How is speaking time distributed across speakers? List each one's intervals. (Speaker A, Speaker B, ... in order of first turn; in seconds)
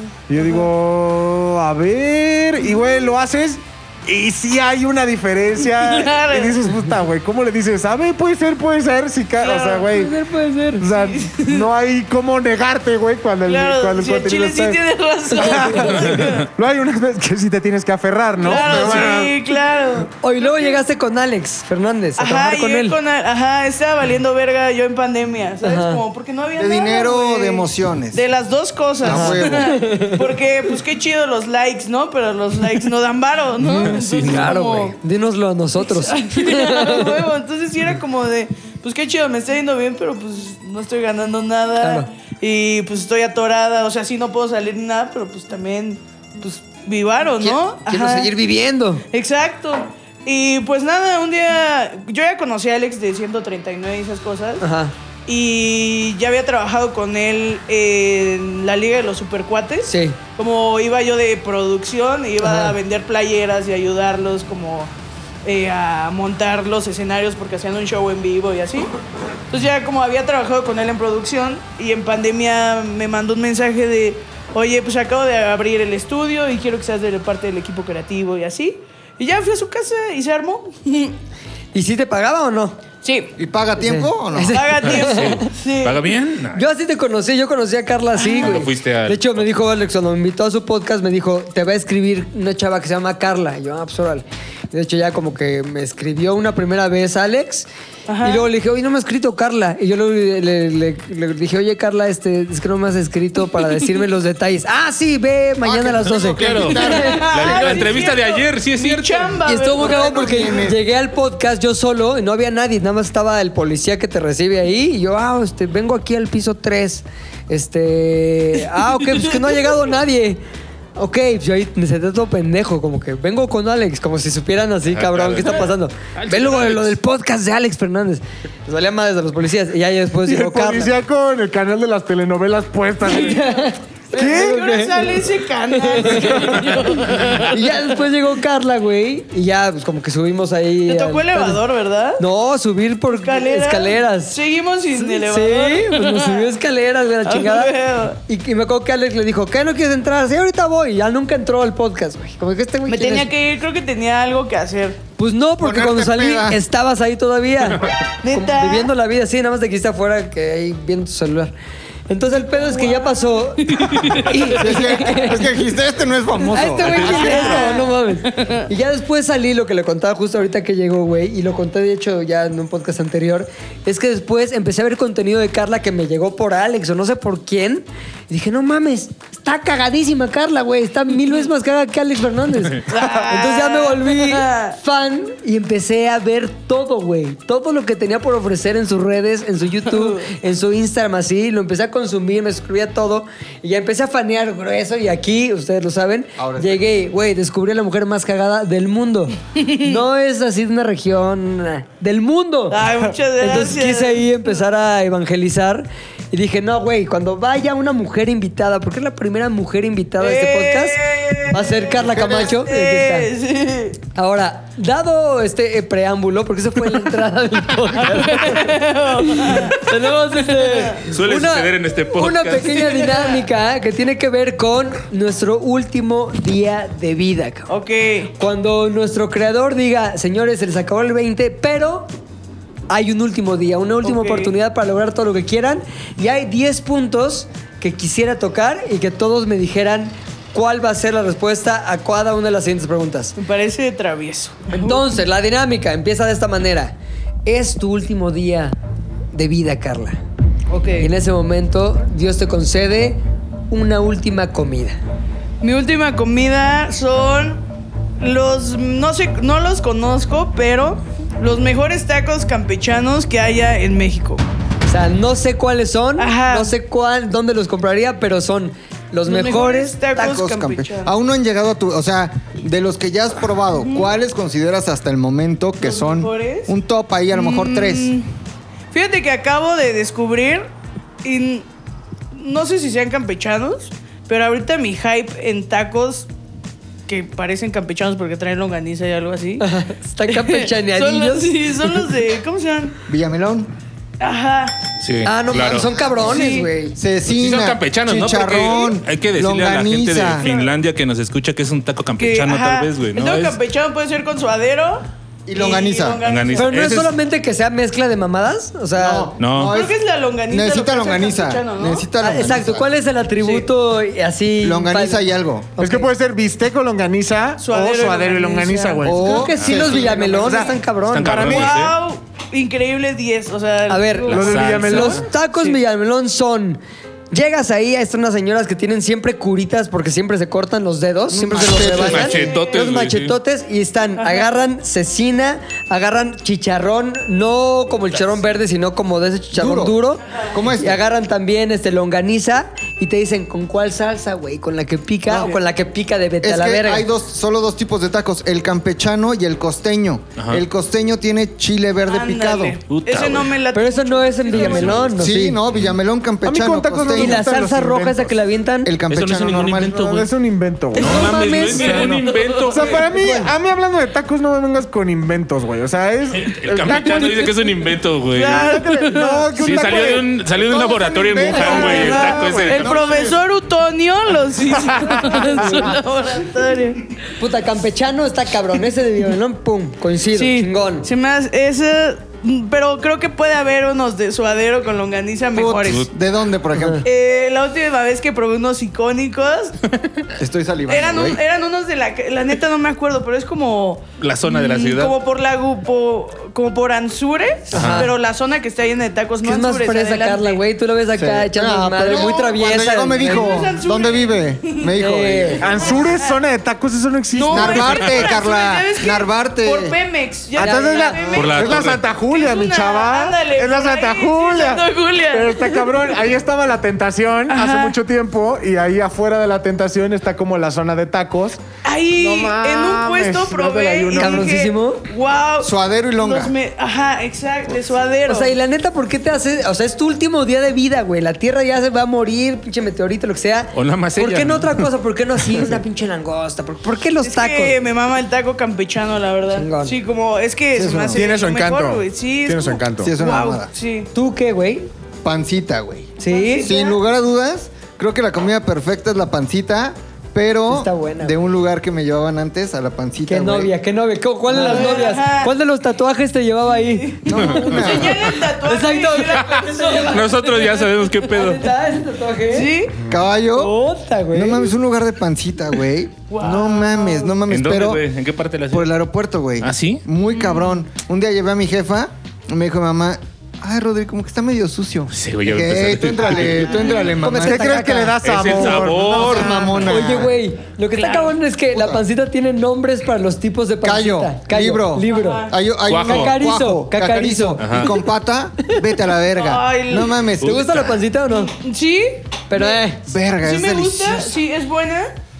Speaker A: 0.3-10.1, 10.8-14.8, 15.3-19.4, 130.2-133.4, 134.1-134.6, 315.8-319.5, 320.4-320.8, 324.3-325.2, 356.4-358.4, 359.9-367.5, 368.4-370.4, 371.3-373.1, 374.8-375.8, 405.6-408.1, 410.5-421.6, 422.1-424.6, 441.1-443.1, 477.4-480.1
Speaker B: 5.6-6.6, 9.4-9.9, 10.9-11.7, 13.4-16.5, 18.4-20.8, 22.2-34.9, 35.8-48.3, 49.1-54.6, 55.2-64.9, 65.4-68.9, 69.5-81.2, 83.0-83.3, 84.5-86.1, 88.2-88.6, 98.1-98.5, 106.6-110.6, 134.1-138.0, 140.9-142.2, 143.1-146.5, 147.2-148.2, 152.9-155.0, 158.2-158.9, 162.6-165.2, 167.1-168.6, 182.9-184.8, 189.9-190.3, 199.5-200.0, 202.7-204.2, 210.2-214.0, 218.0-221.0, 223.0-223.3, 227.7-228.3, 234.0-234.5, 243.4-245.2, 250.7-251.1, 255.6-257.6, 258.2-264.4, 266.2-266.7, 269.2-271.1, 273.8-274.1, 275.8-276.7, 277.3-278.3, 278.9-280.7, 281.2-281.6, 282.3-286.3, 287.1-289.6, 290.3-292.9, 294.2-294.8, 296.2-296.7, 300.4-300.7, 302.2-306.7, 309.6-312.1, 313.4-313.7, 317.6-320.7, 321.2-325.7, 332.1-332.9, 334.2-334.5, 352.1-355.1, 360.9-363.2, 367.1-367.4, 368.3-369.5, 371.4-377.1, 380.3-386.0, 387.0-389.8, 390.9-400.6, 402.1-402.5, 403.2-404.9, 405.6-406.4, 407.3-416.1, 417.5-418.0, 421.8-428.6, 437.2-444.1, 446.2-447.0, 454.5-455.5, 456.7-461.1, 462.5-463.0, 466.3-467.4, 470.3-470.8, 476.2-477.2, 480.9-481.3, 485.1-485.5, 489.3-490.2, 491.3-492.8, 493.4-495.2
Speaker C: 9.8-10.9, 18.5-19.1, 20.2-23.0, 25.6-26.0, 29.1-30.2, 33.6-37.2, 41.8-42.1, 47.4-49.0, 54.6-54.9, 59.9-60.2, 62.4-62.8, 81.7-82.8, 83.8-85.5, 86.5-97.7, 98.2-107.9, 109.4-120.4, 121.0-130.9, 133.0-141.6, 142.2-144.4, 144.9-153.3, 155.2-161.5, 162.1-165.4, 166.4-213.3, 214.1-218.8, 219.3-227.7, 228.4-232.1, 232.9-243.3, 244.7-246.9, 247.4-248.7, 249.3-250.2, 251.0-255.0, 264.9-270.2, 289.6-292.0, 295.2-297.0, 306.6-309.3, 312.2-315.3, 315.8-316.1, 319.2-321.6, 323.9-326.8, 327.3-347.1, 353.7-355.6, 357.1-358.9, 363.1-363.5, 375.6-375.9, 377.4-381.1, 386.8-387.0, 397.7-398.1, 399.4-403.6, 404.9-405.6, 410.6-411.2, 424.1-425.0, 428.3-437.8, 439.5-439.9, 444.1-444.9, 446.2-446.7, 450.7-451.4, 453.3-457.9, 458.6-462.7, 463.5-464.7, 477.2-478.2, 479.8-485.5, 486.0-487.6, 490.4-491.5, 492.5-493.0
Speaker D: 26.5-28.2, 29.0-29.8, 83.3-84.6, 105.6-107.2, 109.8-110.8, 155.6-156.6, 164.5-167.6, 196.4-196.9, 212.0-212.6, 270.1-278.1, 293.1-293.7, 295.9-296.3, 296.9-300.5, 305.4-306.2, 308.9-310.0, 310.5-312.9, 314.6-315.8, 319.0-320.4, 331.3-332.5, 339.5-341.0, 346.4-352.8, 355.2-357.4, 358.8-360.2, 370.7-372.6, 385.5-387.0, 390.4-391.4, 401.1-406.1, 407.5-410.0, 425.6-426.5, 440.7-441.3, 443.0-443.7, 445.2-453.7, 457.2-458.4, 463.0-463.8, 464.3-468.0, 468.7-477.9, 478.9-480.3, 481.7-482.0, 483.8-490.9, 493.1-494.4
Speaker E: 33.6-34.6, 84.8-86.6, 88.4-89.5, 106.1-109.4, 124.9-126.9, 166.8-167.6, 221.1-223.0, 295.0-295.9, 297.3-303.6, 306.2-307.1, 309.4-309.8, 319.6-320.0, 321.1-321.9, 324.3-325.2, 331.6-333.4, 350.4-350.6, 352.9-353.6, 354.5-355.2, 359.1-360.3, 360.9-363.1, 366.3-368.8, 369.6-373.4, 394.2-395.1, 397.7-398.1, 407.8-408.3, 411.3-412.0, 433.7-434.9, 457.4-458.1, 459.4-461.6, 467.5-469.0, 469.6-470.0, 475.1-476.8, 478.2-479.7, 485.8-486.3, 487.6-487.9, 490.4-491.0